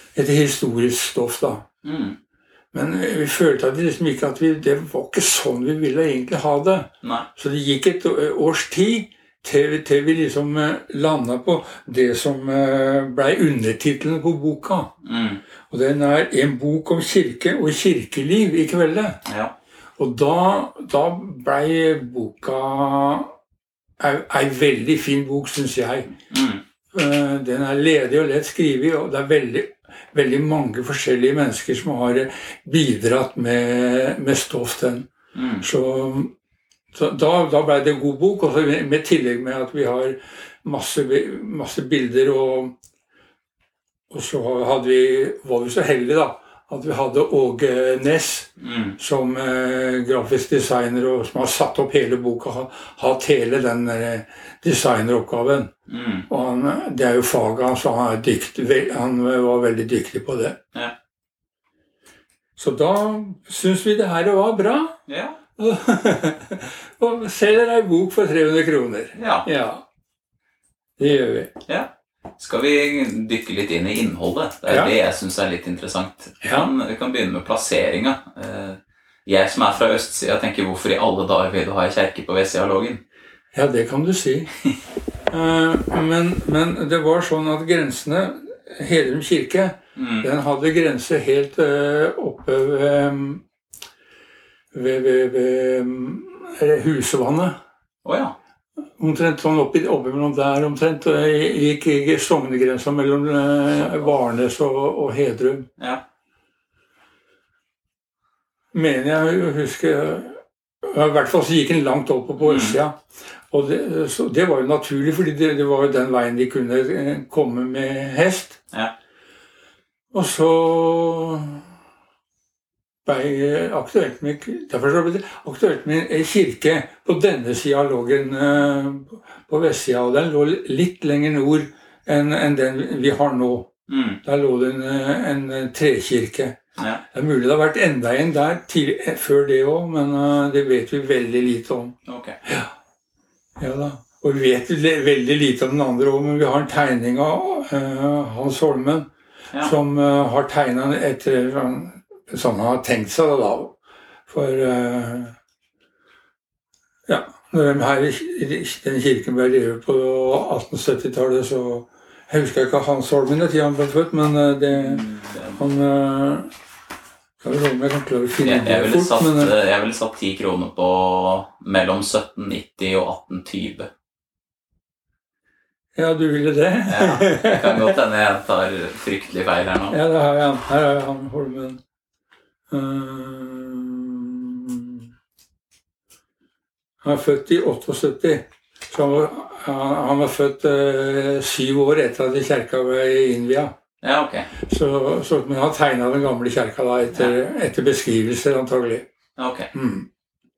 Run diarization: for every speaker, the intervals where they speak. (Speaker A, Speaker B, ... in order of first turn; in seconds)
Speaker A: 0.1-1.6, 2.7-14.9, 15.7-19.2, 20.0-23.3, 24.0-26.1, 26.9-35.1, 35.6-36.3, 36.9-42.7, 44.1-55.7, 56.3-60.6, 62.6-65.0, 65.6-69.8, 71.0-71.5, 74.7-74.9, 76.4-76.7, 83.5-84.6, 85.3-93.4, 94.7-97.5, 99.0-105.7, 108.7-113.0, 113.5-118.6, 120.1-121.6, 123.0-133.7, 134.2-136.6, 137.1-141.9, 143.6-149.1, 149.6-153.7, 154.3-155.3, 157.1-165.0, 165.6-166.5, 167.4-169.5, 175.9-177.9, 179.9-181.8, 182.7-185.1, 187.0-193.7, 194.7-199.1, 199.7-200.1
Speaker B: 1.8-2.1, 15.0-15.4, 19.3-19.5, 26.3-26.6, 35.3-35.6, 48.6-49.0, 55.9-56.3, 65.1-65.4, 69.1-69.5, 71.7-83.0, 90.0-90.3, 98.0-98.3, 112.4-112.8, 133.9-134.2, 142.1-142.3, 164.7-165.6, 168.4-173.9, 176.9-180.0, 194.0-194.5, 197.1-197.4, 199.4-199.7